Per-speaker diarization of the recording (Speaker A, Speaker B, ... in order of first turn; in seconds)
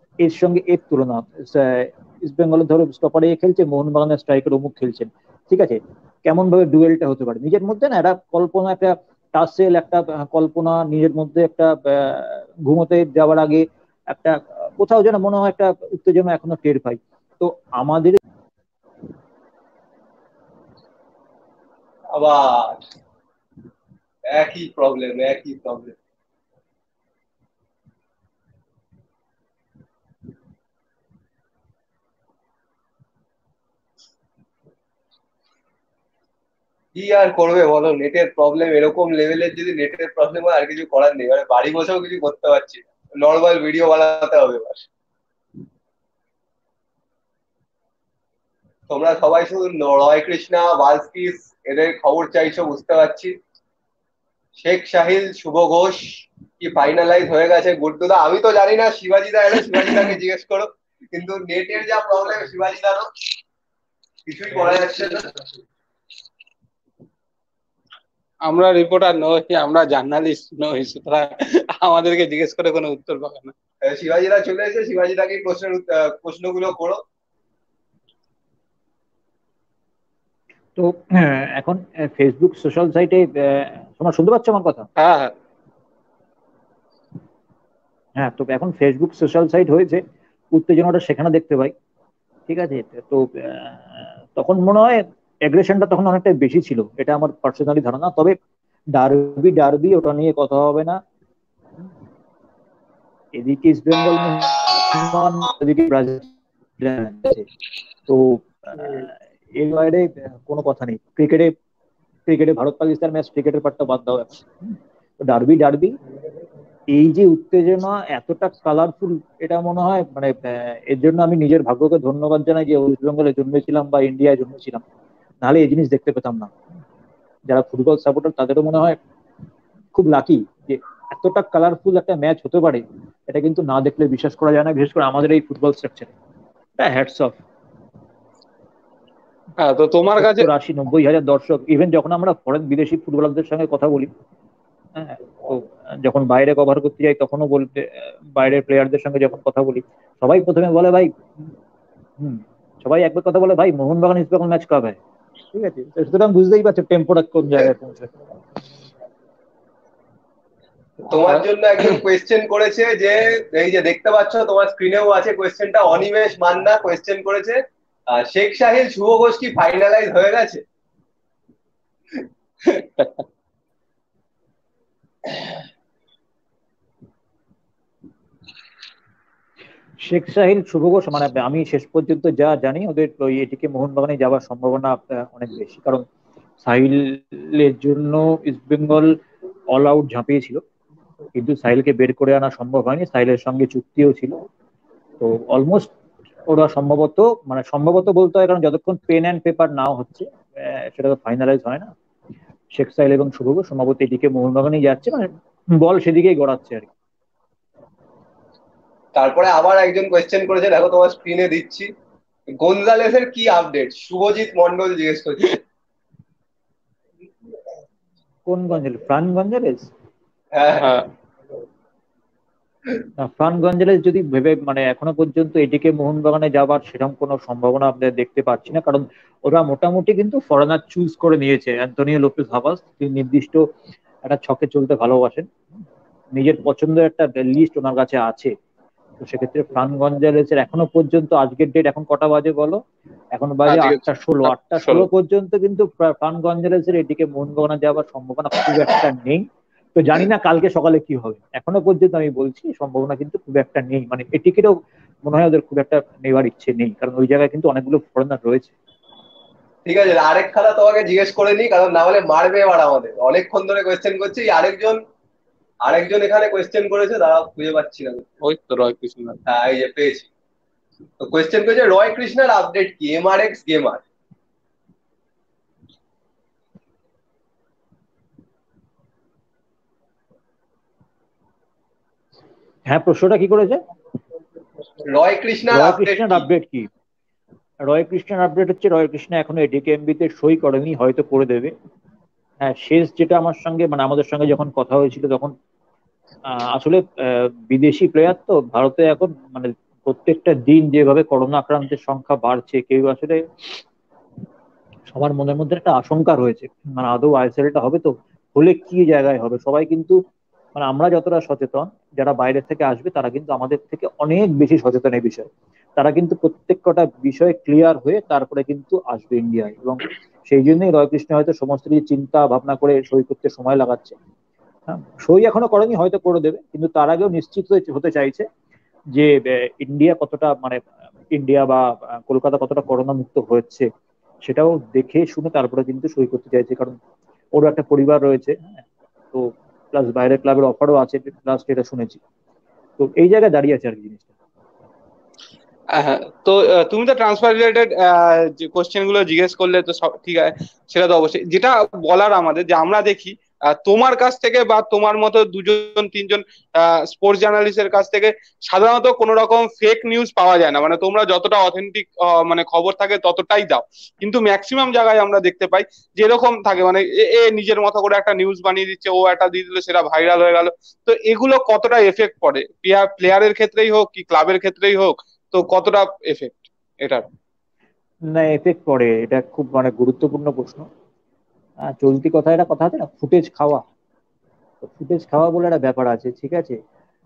Speaker A: 0.2-18.2, 80.8-84.9, 88.2-91.7, 92.5-93.8, 94.3-98.4, 98.9-101.0, 103.3-107.5, 108.1-111.5, 112.3-116.0, 116.9-124.8, 125.4-126.5, 127.5-129.0, 129.9-136.1, 136.8-137.4, 140.2-144.1, 145.0-151.1, 152.2-155.0, 155.5-158.4, 180.0-186.1, 186.6-189.2, 189.7-190.6, 191.3-194.4, 195.2-195.9, 196.5-201.9, 202.8-206.9, 218.5-219.9, 223.2-233.6, 234.2-235.5, 236.3-238.5, 239.2-242.8, 243.3-258.7, 282.9-283.8, 285.7-286.9, 287.9-291.7, 292.6-295.5, 296.5-303.4, 305.1-310.2, 310.8-324.2, 324.9-328.5, 329.1-330.8, 331.3-333.9, 334.4-337.0, 337.6-338.8, 339.3-342.2, 343.0-344.3, 378.3-380.9, 381.9-383.8, 384.8-386.8
Speaker B: 22.1-22.8, 24.3-26.0, 37.0-44.8, 48.9-53.4, 54.6-63.1, 64.3-65.5, 73.8-77.0, 161.1-170.6, 209.2-211.9, 212.5-215.6, 220.5-220.9, 259.9-265.0, 265.8-268.3, 269.5-270.3, 271.2-274.0, 285.0-286.5
Speaker C: 68.5-73.5, 85.0-85.3, 139.6-140.5, 172.7-173.2, 220.8-221.1, 243.7-245.1, 268.4-269.4, 345.9-377.3